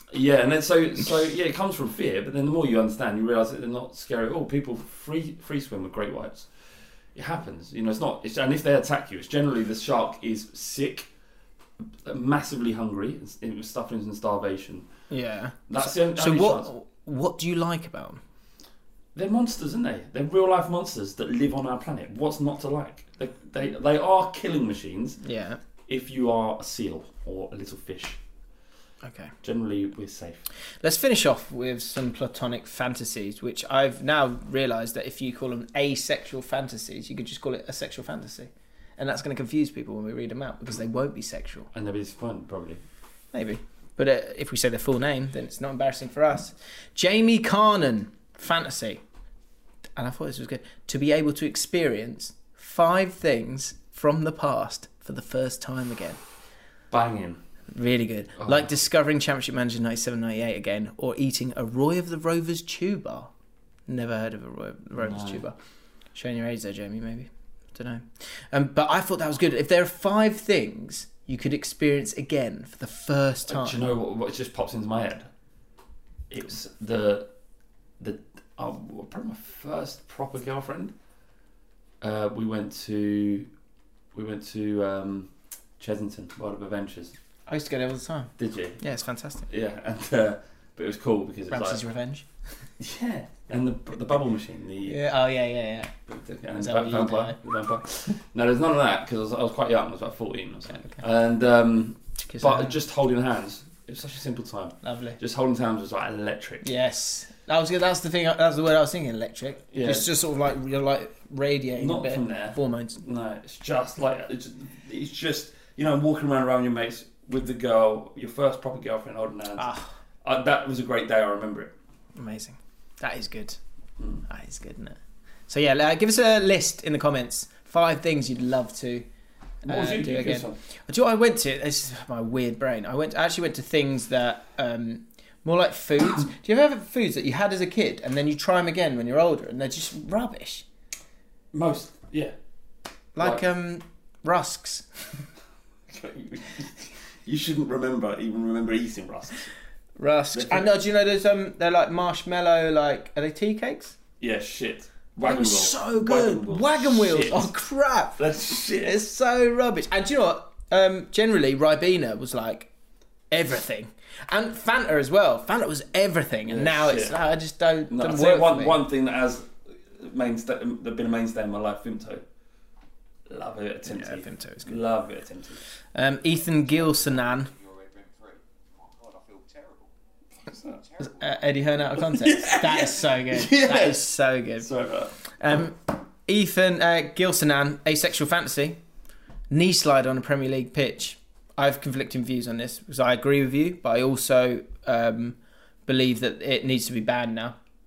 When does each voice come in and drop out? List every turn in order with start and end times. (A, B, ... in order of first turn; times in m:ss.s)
0:00.1-0:06.5 A
0:07.1-0:11.1 A
0:12.0-0:14.9 A
0:15.1-0:18.2 B
0:15.7-0:16.7 A
0:19.1-0:25.2 A
0:25.2-0:25.6 B
0:25.9-0:28.2 A
0:29.0-0:29.3 B
0:29.4-0:30.4 A
0:30.8-0:41.7 B
0:41.7-0:42.8 A
0:43.3-0:49.0 B
0:50.0-0:56.2 B
0:56.9-0:57.4 A
0:57.7-1:03.3 B
0:58.4-0:58.7 A
1:03.9-1:05.6 B
1:05.0-1:05.4 A
1:06.1-1:13.8 B
1:13.5-1:15.3 A
1:16.3-1:17.3 A
1:18.0-1:20.9 A
1:22.0-1:23.5 A
1:24.1-1:27.1 A
1:27.5-1:29.4 B
1:28.4-1:28.8 A
1:29.5-1:31.8 A
1:31.5-1:32.2 B
1:32.8-1:35.0 A
1:34.9-1:35.9 B
1:36.1-1:46.7 A
1:36.6-1:37.4 B
1:42.2-1:42.7 B
1:44.8-1:45.2 B
1:46.6-1:53.0 B
1:49.7-1:50.1 A
1:51.8-2:01.7 A
1:59.6-1:59.9 B
2:02.2-2:03.6 B
2:04.2-2:05.0 B
2:05.5-2:09.1 B
2:09.6-2:20.6 B
2:09.7-2:10.6 A
2:21.5-2:22.3 A
2:23.2-2:25.1 B
2:23.2-2:23.4 A
2:25.9-2:29.5 A
2:30.0-2:34.0 B
2:30.3-2:30.7 A
2:34.2-2:37.5 A
2:35.2-2:42.7 B
2:38.2-2:39.0 A
2:43.3-2:48.8 B
2:46.5-2:47.2 A
2:47.9-2:52.2 A
2:53.3-2:55.6 A
2:53.9-2:54.8 B
2:55.9-2:57.5 B
3:00.5-3:00.8 A
3:01.0-3:04.7 B
3:02.1-3:05.1 A
3:05.3-3:08.8 B
3:09.5-3:17.6 B